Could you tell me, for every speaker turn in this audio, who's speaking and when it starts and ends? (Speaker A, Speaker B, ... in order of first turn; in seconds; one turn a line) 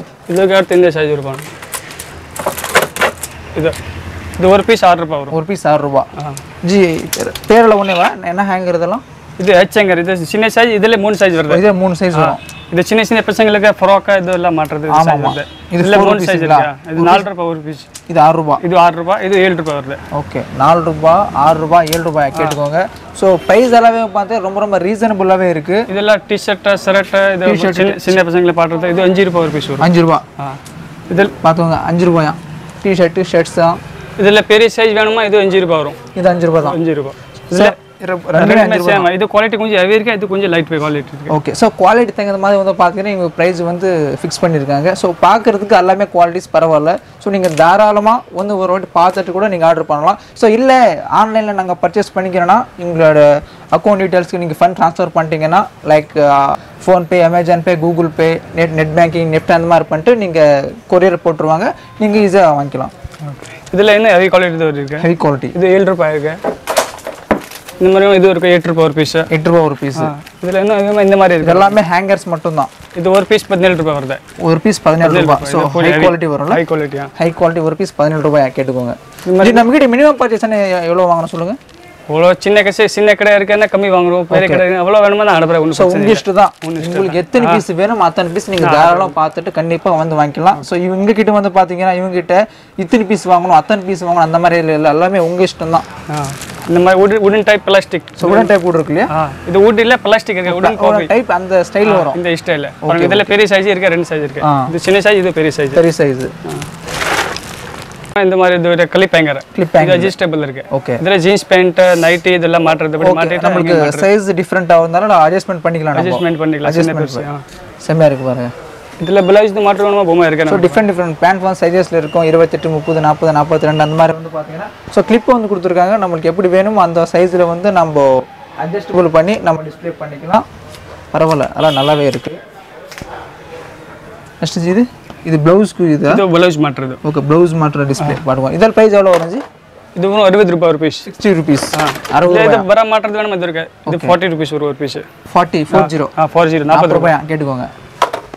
Speaker A: 0.3-1.5
Speaker A: 4.4-5.3
Speaker B: 5.3-6.1
Speaker B: 6.6-9.0
Speaker A: 9.4-11.6
Speaker B: 11.5-12.4
Speaker A: 12.1-17.9
Speaker B: 14.9-17.2
Speaker B: 18.1-18.6
Speaker A: 18.6-20.0
Speaker B: 20.1-25.9
Speaker A: 25.9-30.6
Speaker B: 27.4-28.2
Speaker B: 29.8-30.2
Speaker A: 31.1-31.3
Speaker B: 31.4-33.8
Speaker A: 34.2-36.0
Speaker B: 36.1-36.8
Speaker A: 36.6-37.8
Speaker B: 37.5-39.1
Speaker A: 38.3-41.4
Speaker B: 41.3-62.9
Speaker A: 63.2-66.4
Speaker B: 65.0-65.5
Speaker A: 67.8-69.3
Speaker B: 69.3-70.1
Speaker A: 69.9-71.8
Speaker B: 71.4-72.7
Speaker A: 73.0-74.2
Speaker B: 74.4-76.6
Speaker A: 75.0-77.1
Speaker B: 77.2-81.6
Speaker A: 79.2-79.7
Speaker A: 82.1-87.6
Speaker B: 84.3-84.6
Speaker B: 85.7-95.8
Speaker A: 88.6-89.1
Speaker A: 96.1-98.5
Speaker B: 98.2-99.1
Speaker A: 99.1-101.1
Speaker B: 100.5-102.2
Speaker A: 101.8-105.8
Speaker B: 102.8-103.3
Speaker B: 104.4-104.7
Speaker B: 105.7-106.3
Speaker A: 108.1-114.1
Speaker B: 109.5-110.1
Speaker B: 110.7-111.0
Speaker B: 113.0-117.3
Speaker A: 115.9-117.4
Speaker B: 117.8-118.5
Speaker A: 119.0-120.8
Speaker B: 120.5-130.4
Speaker B: 131.1-132.4
Speaker B: 134.4-136.2
Speaker A: 136.1-137.0
Speaker B: 137.0-139.4
Speaker A: 139.9-141.1
Speaker B: 141.1-142.7
Speaker A: 141.7-145.1
Speaker B: 143.8-144.2
Speaker B: 145.3-146.1
Speaker A: 145.7-147.1
Speaker B: 146.7-147.7